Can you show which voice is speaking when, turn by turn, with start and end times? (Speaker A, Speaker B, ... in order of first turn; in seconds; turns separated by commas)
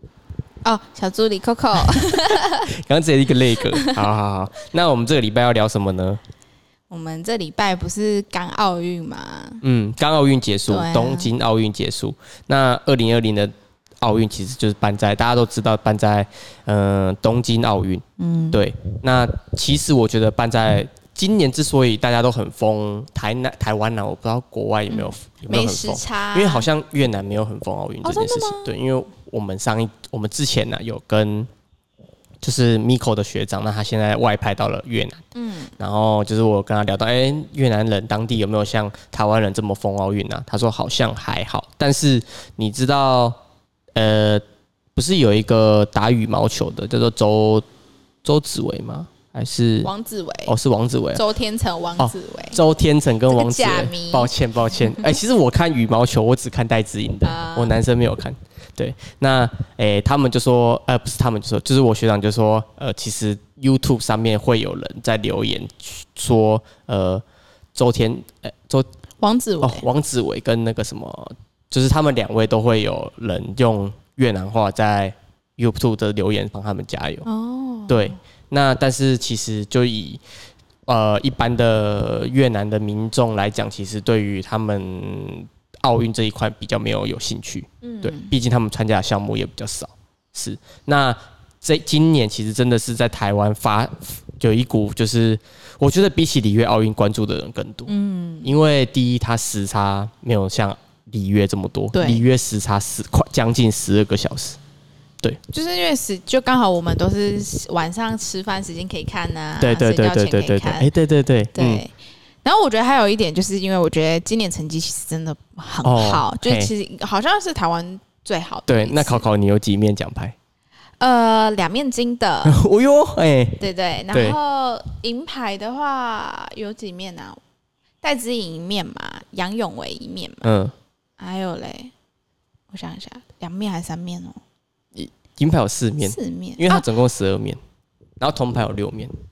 Speaker A: 0.6-2.7, Speaker B: 2.0-6.2, Speaker A: 3.7-4.0, Speaker A: 6.9-9.6, Speaker B: 9.6-31.5, Speaker A: 10.7-11.3, Speaker A: 18.2-18.6, Speaker A: 24.9-26.7, Speaker A: 28.0-28.7, Speaker B: 32.4-35.2, Speaker A: 35.3-35.7, Speaker B: 35.8-43.4, Speaker B: 44.0-44.4, Speaker B: 45.0-47.7, Speaker B: 48.2-49.9, Speaker A: 49.8-50.5, Speaker B: 50.5-51.2, Speaker A: 51.1-52.6, Speaker B: 52.0-67.2, Speaker A: 53.3-54.3, Speaker A: 57.2-57.8, Speaker B: 67.8-68.9, Speaker A: 69.2-69.9, Speaker B: 69.6-77.3, Speaker A: 77.2-78.2, Speaker B: 77.9-80.2, Speaker B: 80.9-97.9, Speaker A: 87.8-88.3, Speaker A: 97.9-98.5, Speaker B: 98.4-104.6, Speaker A: 101.9-102.2, Speaker A: 105.5-110.9, Speaker B: 109.6-111.8, Speaker A: 111.5-111.9, Speaker A: 112.4-119.3, Speaker B: 115.8-116.7, Speaker B: 118.7-120.3, Speaker A: 121.0-122.6, Speaker B: 122.4-123.6, Speaker A: 123.6-127.4, Speaker A: 128.0-130.5, Speaker B: 130.4-130.7, Speaker A: 131.2-131.9, Speaker A: 132.7-134.4, Speaker B: 134.9-137.6, Speaker A: 136.0-136.9, Speaker B: 138.2-139.1